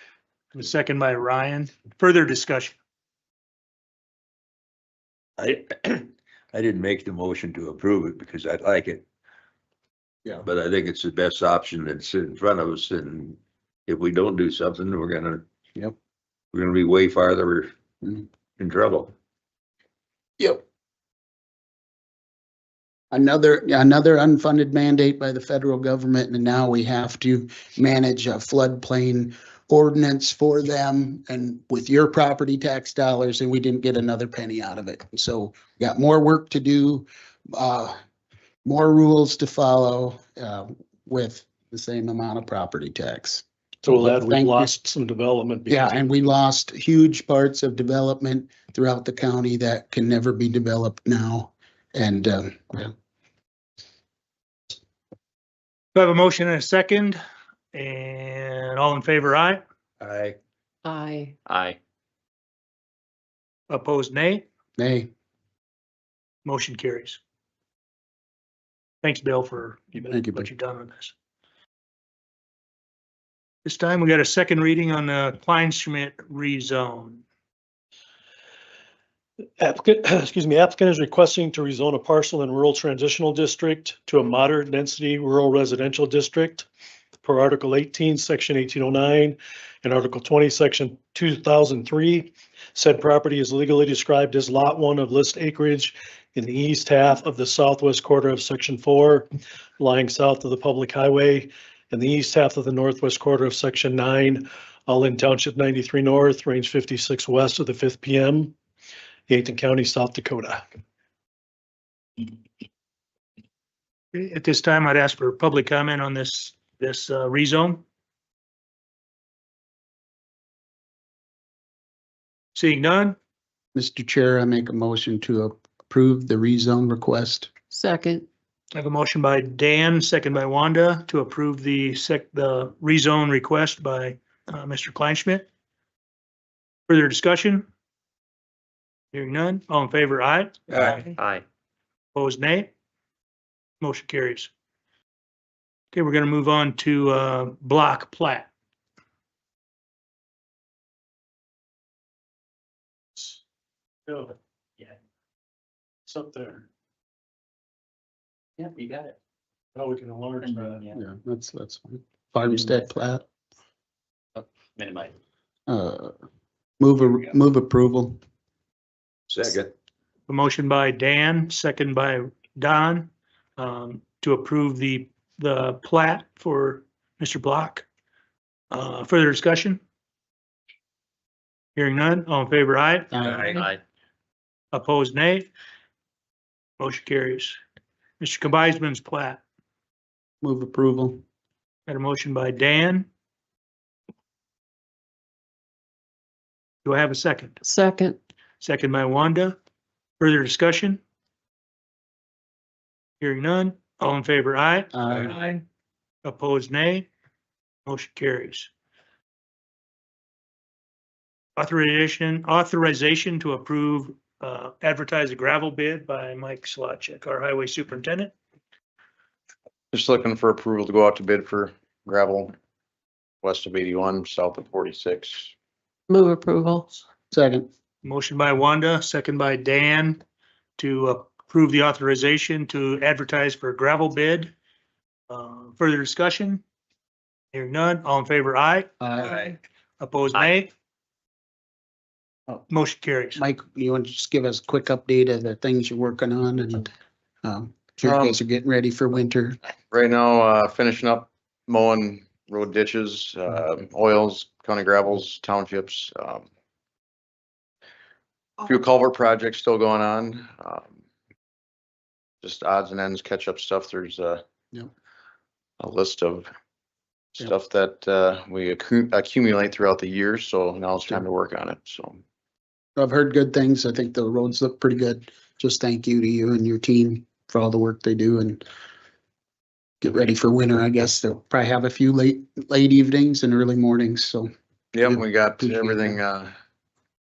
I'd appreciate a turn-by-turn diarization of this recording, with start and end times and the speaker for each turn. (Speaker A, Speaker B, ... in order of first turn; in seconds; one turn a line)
Speaker A: 0.6-2.8
Speaker B: 5.4-9.0
Speaker B: 10.4-15.4
Speaker B: 16.5-17.7
Speaker B: 18.6-19.1
Speaker C: 23.1-38.0
Speaker C: 38.6-44.7
Speaker D: 43.8-46.0
Speaker C: 45.7-52.9
Speaker A: 55.9-57.2
Speaker A: 57.7-59.6
Speaker B: 60.0-60.4
Speaker E: 60.9-61.4
Speaker F: 61.5-61.8
Speaker A: 63.7-64.5
Speaker C: 64.8-65.1
Speaker A: 66.5-67.2
Speaker A: 69.0-71.1
Speaker C: 70.1-70.5
Speaker A: 73.7-77.2
Speaker D: 79.6-86.7
Speaker D: 87.2-99.3
Speaker D: 99.8-108.5
Speaker D: 109.3-110.6
Speaker A: 114.1-117.8
Speaker A: 122.5-123.2
Speaker C: 123.8-127.5
Speaker E: 127.7-128.3
Speaker A: 128.8-135.5
Speaker A: 136.9-137.7
Speaker A: 139.1-140.6
Speaker F: 140.8-141.4
Speaker A: 142.2-142.7
Speaker A: 143.8-144.5
Speaker A: 145.9-148.5
Speaker D: 154.1-154.3
Speaker D: 156.1-156.7
Speaker F: 158.6-159.1
Speaker D: 159.7-160.9
Speaker F: 160.4-161.0
Speaker C: 160.9-163.2
Speaker F: 164.3-165.1
Speaker C: 165.7-166.1
Speaker C: 166.8-168.2
Speaker B: 169.3-169.7
Speaker A: 170.3-177.8
Speaker A: 178.7-179.8
Speaker A: 181.8-183.1
Speaker C: 183.1-183.4
Speaker F: 183.3-183.8
Speaker A: 184.7-185.5
Speaker A: 186.8-187.6
Speaker A: 188.2-189.4
Speaker C: 190.4-191.2
Speaker A: 191.9-193.1
Speaker A: 196.8-197.6
Speaker E: 197.6-198.2
Speaker A: 198.6-199.6
Speaker A: 200.2-201.0
Speaker A: 203.2-204.9
Speaker C: 204.9-205.3
Speaker A: 206.2-207.1
Speaker A: 207.9-208.7
Speaker A: 211.6-218.3
Speaker G: 219.9-222.5
Speaker G: 223.4-225.5
Speaker E: 226.1-227.0
Speaker C: 227.3-227.7
Speaker A: 228.0-230.2
Speaker A: 230.8-234.5
Speaker A: 235.3-236.6
Speaker A: 237.5-240.7
Speaker C: 239.0-239.4
Speaker A: 242.7-243.4
Speaker C: 243.3-246.9
Speaker C: 247.4-249.6
Speaker G: 248.0-248.4
Speaker G: 249.9-256.5
Speaker G: 258.6-260.9
Speaker G: 262.4-264.4
Speaker G: 265.8-266.5
Speaker G: 267.4-272.2
Speaker C: 273.0-278.6
Speaker C: 280.0-284.5
Speaker G: 284.9-286.5
Speaker C: 285.0-286.2